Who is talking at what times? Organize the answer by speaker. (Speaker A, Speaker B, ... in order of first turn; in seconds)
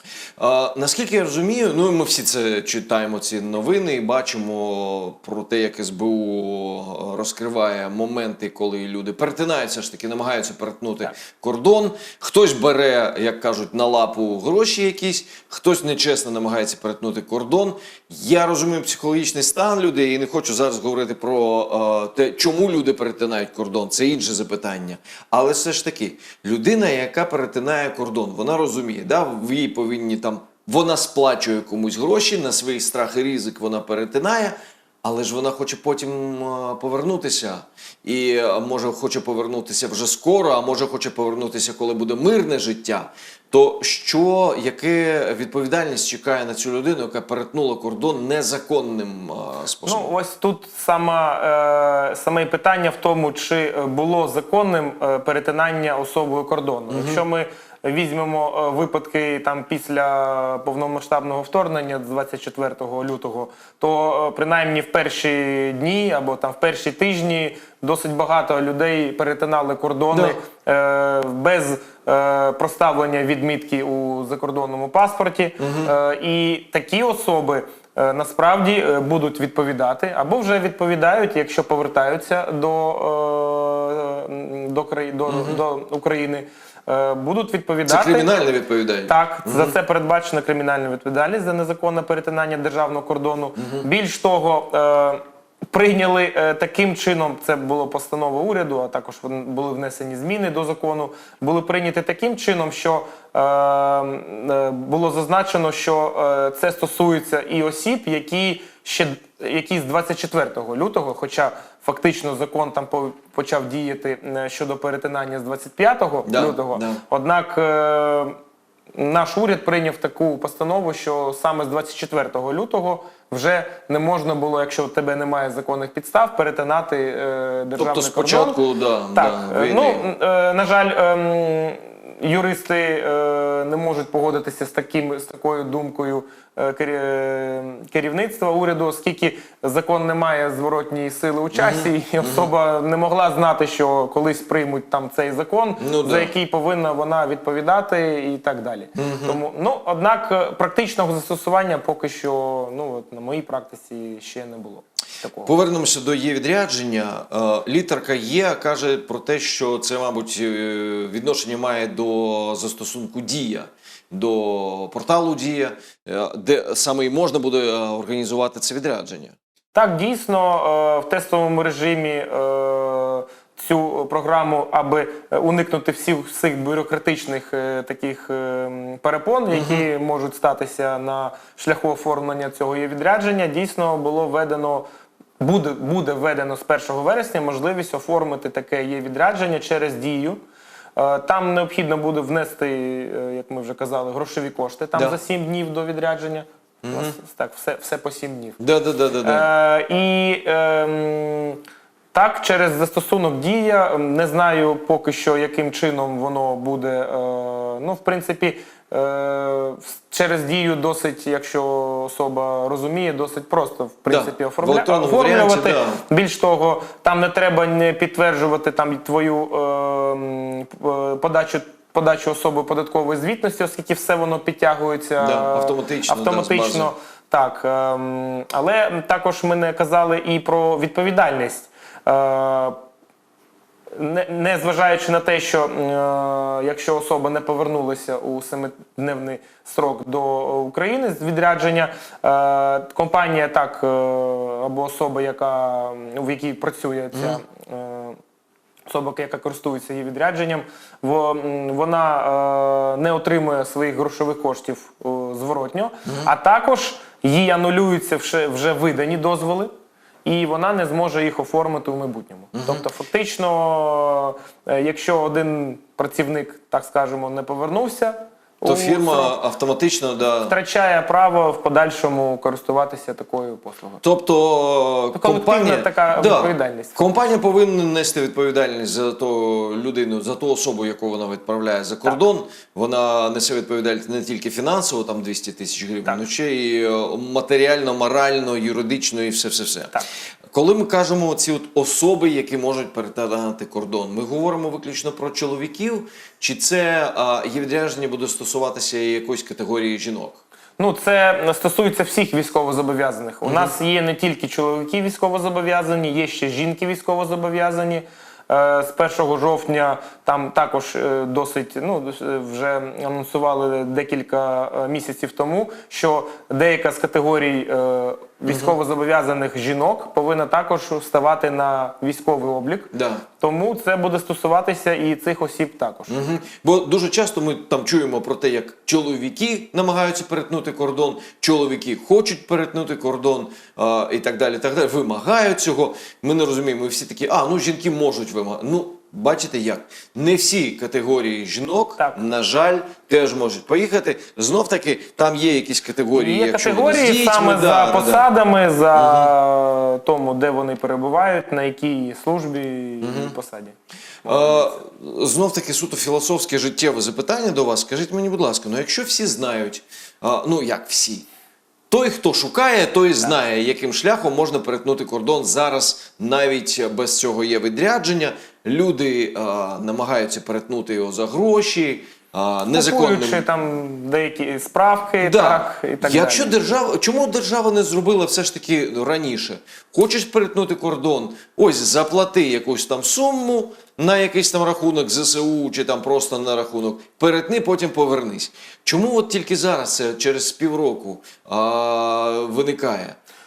Speaker A: 0.4-50.1, 56.9-57.2, 70.1-70.4, 75.6-75.9, 85.3-85.6, 87.9-89.7, 93.6-93.8, 116.3-117.0, 127.8-130.1, 141.5-142.5, 145.8-146.3, 149.0-149.4, 155.4-169.3, 179.5-179.8, 196.8-197.1, 198.6-199.5, 214.1-216.0, 225.2-226.9, 247.1-247.4, 256.1-256.3, 262.5-262.8, 268.6-270.5, 274.0-290.0, 290.5-300.4, 303.4-303.7, 318.5-318.7, 322.9-323.2, 326.1-348.2, 348.9-349.3, 353.0-353.3, 354.2-361.2, 361.9-373.5, 375.2-393.1
Speaker B: 49.8-88.3, 89.0-118.4, 118.9-128.6, 129.1-155.5, 169.7-184.8, 185.4-190.4, 190.9-198.6, 199.2-201.6, 202.1-232.8, 233.9-248.2, 248.9-259.7, 260.2-269.4, 270.4-274.0, 275.1-277.0, 300.8-326.1, 346.1-354.8, 372.7-376.6